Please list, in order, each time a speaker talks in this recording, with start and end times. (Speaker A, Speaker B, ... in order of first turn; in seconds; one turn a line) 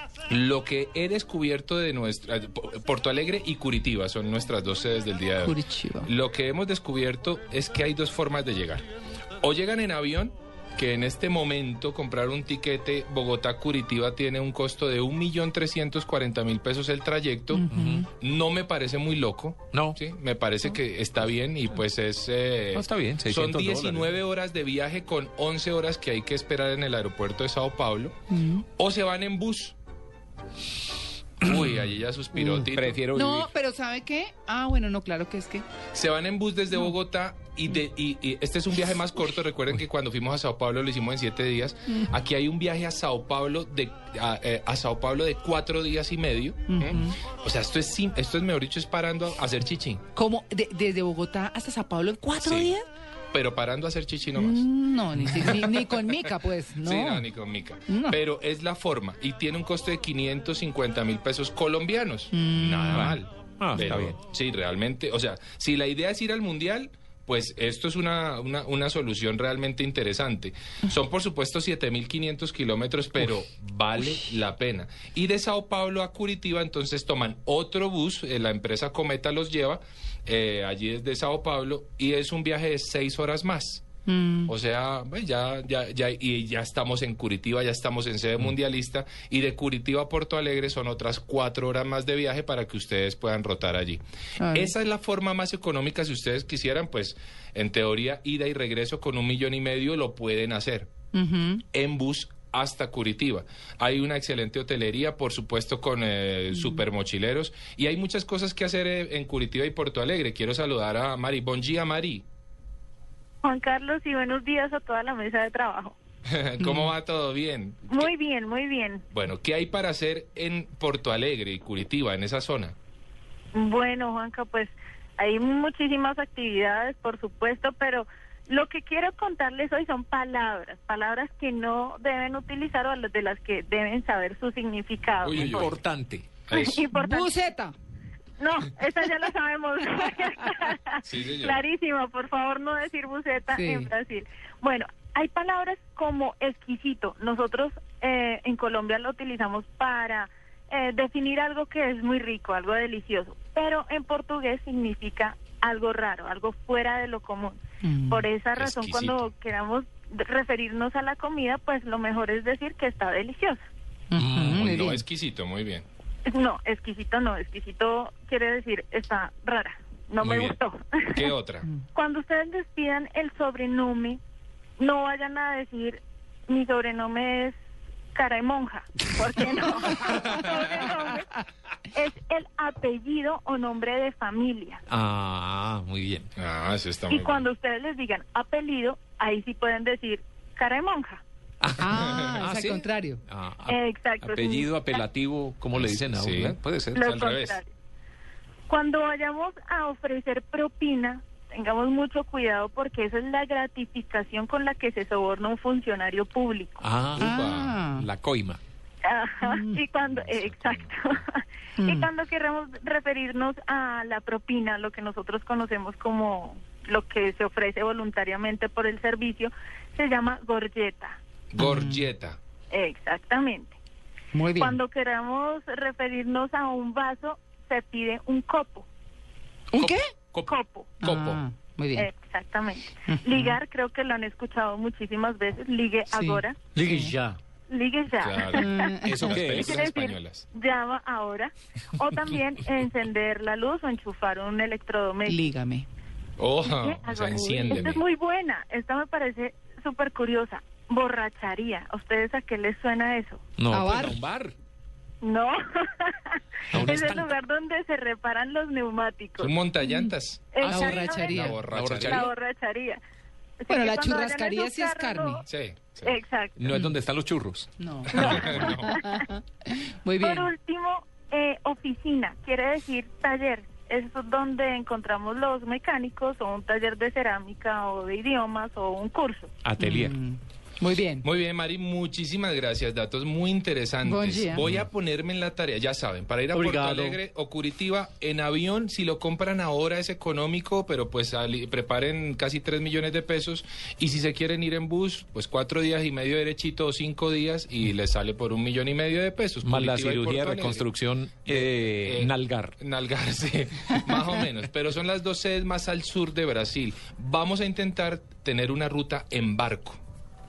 Speaker A: 0.3-8.8
Speaker B: 5.4-6.1
Speaker A: 9.4-28.1
Speaker C: 17.7-18.1
Speaker C: 19.7-20.0
Speaker C: 22.7-24.1
Speaker A: 28.8-29.8
Speaker A: 31.4-33.0
Speaker C: 32.5-33.5
Speaker B: 33.2-35.5
Speaker D: 35.1-35.6
Speaker A: 35.9-50.0
Speaker B: 46.8-47.1
Speaker B: 50.2-52.8
Speaker D: 52.1-52.6
Speaker A: 52.4-52.7
Speaker A: 53.3-54.7
Speaker B: 54.4-57.1
Speaker D: 54.6-56.4
Speaker A: 55.2-56.3
Speaker A: 56.8-83.9
Speaker B: 62.3-62.7
Speaker C: 62.9-64.2
Speaker B: 84.1-84.5
Speaker A: 84.5-100.9
Speaker B: 94.4-94.7
Speaker B: 101.1-101.6
Speaker A: 101.7-112.2
Speaker E: 113.4-116.0
Speaker A: 116.2-118.1
Speaker E: 117.9-119.0
Speaker A: 119.1-122.7
Speaker E: 123.5-135.7
Speaker A: 135.2-135.7
Speaker C: 135.3-136.4
Speaker A: 136.5-136.8
Speaker E: 136.5-137.4
Speaker B: 136.9-137.7
Speaker E: 138.4-163.6
Speaker A: 141.1-141.6
Speaker B: 143.5-143.9
Speaker B: 157.8-158.2
Speaker A: 158.6-159.3
Speaker B: 164.1-165.0
Speaker C: 164.2-164.7
Speaker A: 164.4-165.8
Speaker E: 166.2-171.3
Speaker C: 170.2-170.6
Speaker A: 171.1-171.7
Speaker E: 171.9-174.2
Speaker E: 174.8-177.5
Speaker E: 178.1-181.4
Speaker E: 181.9-184.8
Speaker C: 184.9-186.3
Speaker A: 186.4-187.4
Speaker E: 187.1-191.2
Speaker C: 191.6-197.1
Speaker B: 191.8-193.2
Speaker A: 191.9-192.4
Speaker E: 193.7-195.0
Speaker A: 195.8-197.6
Speaker E: 196.9-197.7
Speaker E: 198.7-206.8
Speaker C: 206.8-208.6
Speaker B: 207.2-208.1
Speaker A: 207.2-207.8
Speaker E: 209.0-221.2
Speaker B: 209.5-209.8
Speaker A: 209.9-211.2
Speaker B: 211.8-212.0
Speaker A: 221.5-222.4
Speaker B: 221.6-222.0
Speaker E: 222.7-223.8
Speaker B: 224.3-224.7
Speaker E: 224.6-228.9
Speaker C: 229.8-230.5
Speaker E: 230.4-231.0
Speaker B: 231.0-232.0
Speaker D: 231.2-231.7
Speaker E: 231.9-236.7
Speaker B: 236.1-236.4
Speaker D: 236.8-237.3
Speaker C: 236.8-237.1
Speaker E: 237.7-245.5
Speaker A: 238.2-240.4
Speaker B: 238.6-239.3
Speaker C: 239.1-239.8
Speaker B: 245.3-245.8
Speaker A: 246.4-248.0
Speaker E: 246.6-253.4
Speaker C: 253.6-254.5
Speaker B: 253.7-254.1
Speaker E: 255.2-259.5
Speaker C: 256.7-257.3
Speaker A: 259.4-260.6
Speaker B: 259.8-260.1
Speaker E: 260.5-263.0
Speaker D: 260.6-261.3
Speaker B: 260.6-261.6
Speaker A: 261.3-262.2
Speaker C: 261.3-262.3
Speaker E: 263.6-265.4
Speaker B: 263.7-265.4
Speaker A: 265.4-266.1
Speaker E: 266.0-266.7
Speaker C: 266.6-268.7
Speaker B: 267.8-268.2
Speaker A: 268.1-269.0
Speaker E: 268.1-269.3
Speaker B: 268.7-270.4
Speaker E: 270.2-279.5
Speaker C: 279.6-280.1
Speaker B: 279.8-281.2
Speaker A: 281.2-300.8
Speaker B: 284.0-284.6
Speaker C: 286.6-287.1
Speaker C: 299.6-302.7
Speaker A: 301.4-310.0